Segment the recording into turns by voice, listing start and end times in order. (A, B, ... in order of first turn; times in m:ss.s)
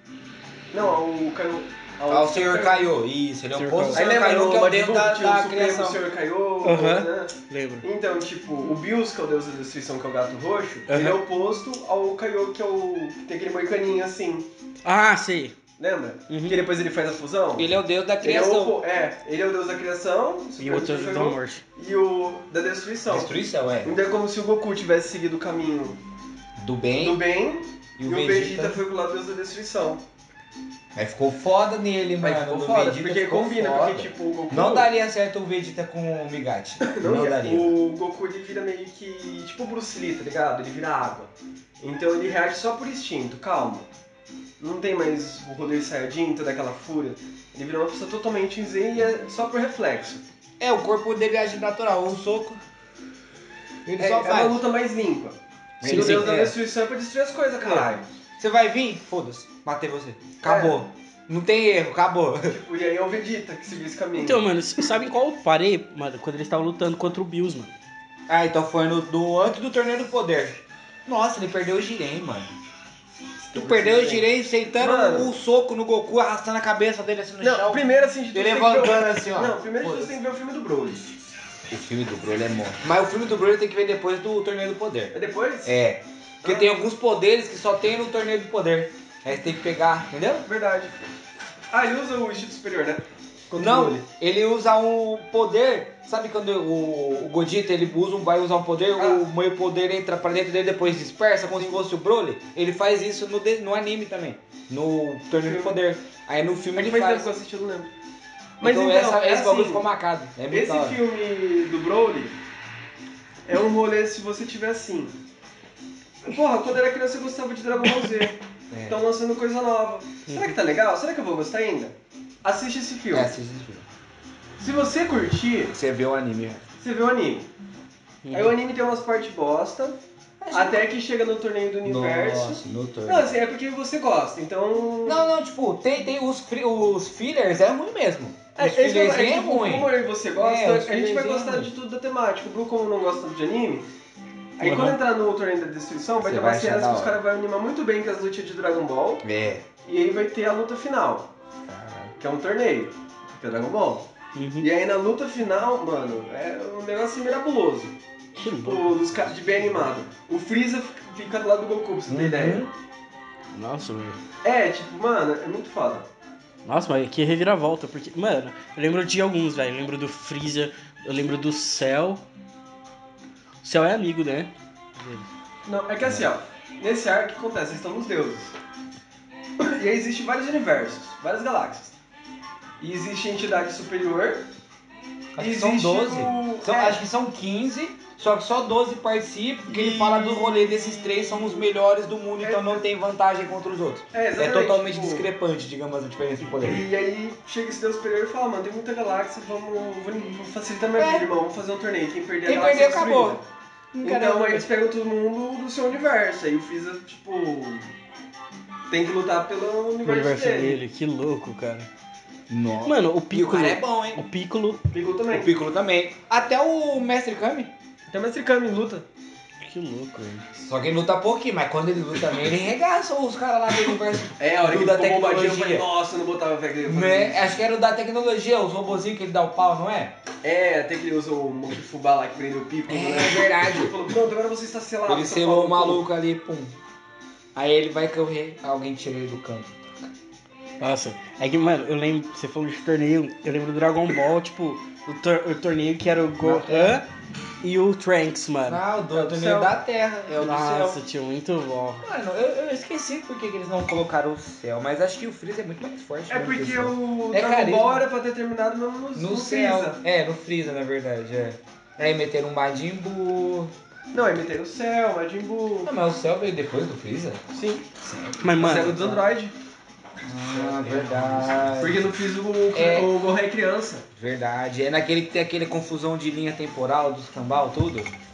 0:00.7-0:02.8 A
0:02.1-0:06.0 B
0:03.6-0:04.1 C
0:03.9-0:14.5 A
0:06.6-0:07.8 C
0:10.9-0:11.2 C
0:14.8-0:15.6 C
0:15.8-0:26.0 A
0:16.3-0:16.6 C
0:17.6-0:18.8 B
0:20.6-0:21.6 C
0:23.1-0:24.0 B
0:26.6-0:27.2 B
0:27.0-0:30.0 A
0:28.0-0:28.8 B
0:31.0-0:37.8 B
0:32.2-0:34.9 A
0:36.8-0:43.9 A
0:44.6-0:50.2 A
0:50.6-0:52.6 B
0:53.9-0:54.6 B
0:54.0-0:58.0 A
0:55.8-0:56.6 B
0:55.8-0:56.3 C
0:57.6-1:02.6 B
1:00.4-1:00.8 A
1:02.5-1:04.5 A
1:04.2-1:07.7 C
1:08.3-1:12.5 B
1:13.4-1:15.3 A
1:13.5-1:20.2 B
1:17.4-1:21.1 A
1:21.7-1:30.4 B
1:25.1-1:25.8 A
1:26.4-1:26.8 A
1:30.4-1:30.9 A
1:31.7-1:34.1 A
1:33.6-1:47.3 B
1:39.0-1:39.2 A
1:45.4-1:45.8 A
1:46.8-1:47.9 A
1:48.6-1:49.9 A
1:48.6-1:51.0 B
1:50.5-1:52.4 A
1:53.5-1:55.2 A
1:56.2-2:03.3 A
1:58.7-1:59.0 B
2:00.3-2:00.5 C
2:03.1-2:03.9 B
2:04.6-2:05.7 A
2:05.7-2:06.7 B
2:06.8-2:07.5 A
2:08.2-2:08.6 C
2:08.3-2:10.0 A
2:10.4-2:10.9 B
2:10.5-2:15.3 A
2:11.8-2:13.3 B
2:15.0-2:21.7 B
2:18.6-2:23.9 A
2:24.6-2:29.3 A
2:24.6-2:25.0 C
2:26.2-2:27.2 B
2:29.2-2:29.7 B
2:29.8-2:31.3 A
2:31.7-2:32.1 B
2:32.2-2:42.7 A
2:34.4-2:34.7 C
2:38.4-2:39.1 C
2:42.1-2:42.7 B
2:43.5-2:44.2 C
2:44.4-2:46.1 A
2:46.6-2:52.2 C
2:53.6-2:55.3 C
2:55.7-2:58.6 A
2:59.6-3:02.0 A
3:02.8-3:04.5 A
3:05.4-3:16.8 B
3:05.4-3:07.0 A
3:09.7-3:10.6 A
3:12.4-3:12.8 A
3:14.1-3:15.3 A
3:16.6-3:23.4 A
3:21.0-3:21.3 B
3:22.5-3:23.4 B
3:23.9-3:24.7 B
3:24.0-3:27.9 A
3:28.9-3:30.8 A
3:30.0-3:31.9 C
3:32.5-3:34.2 B
3:32.8-3:34.8 C
3:34.9-3:35.5 A
3:35.3-3:37.7 B
3:38.1-3:39.1 A
3:39.6-3:40.5 C
3:40.7-3:45.9 B
3:44.4-3:47.5 A
3:46.9-3:50.2 B
3:50.4-3:56.1 A
3:52.9-3:54.0 B
3:55.1-3:56.8 B
3:57.6-3:59.8 B
4:00.8-4:07.1 C
4:06.4-4:07.0 B
4:07.6-4:08.8 C
4:08.6-4:11.0 B
4:09.1-4:09.8 A
4:10.4-4:12.0 C
4:12.0-4:18.1 B
4:16.3-4:20.0 A
4:19.2-4:23.7 B
4:24.1-4:25.9 A
4:25.8-4:27.4 B
4:27.5-4:27.9 A
4:28.0-4:29.2 B
4:28.4-4:29.0 C
4:28.6-4:29.6 A
4:30.2-4:32.1 B
4:31.8-4:34.1 A
4:32.7-4:33.1 B
4:34.2-4:38.1 B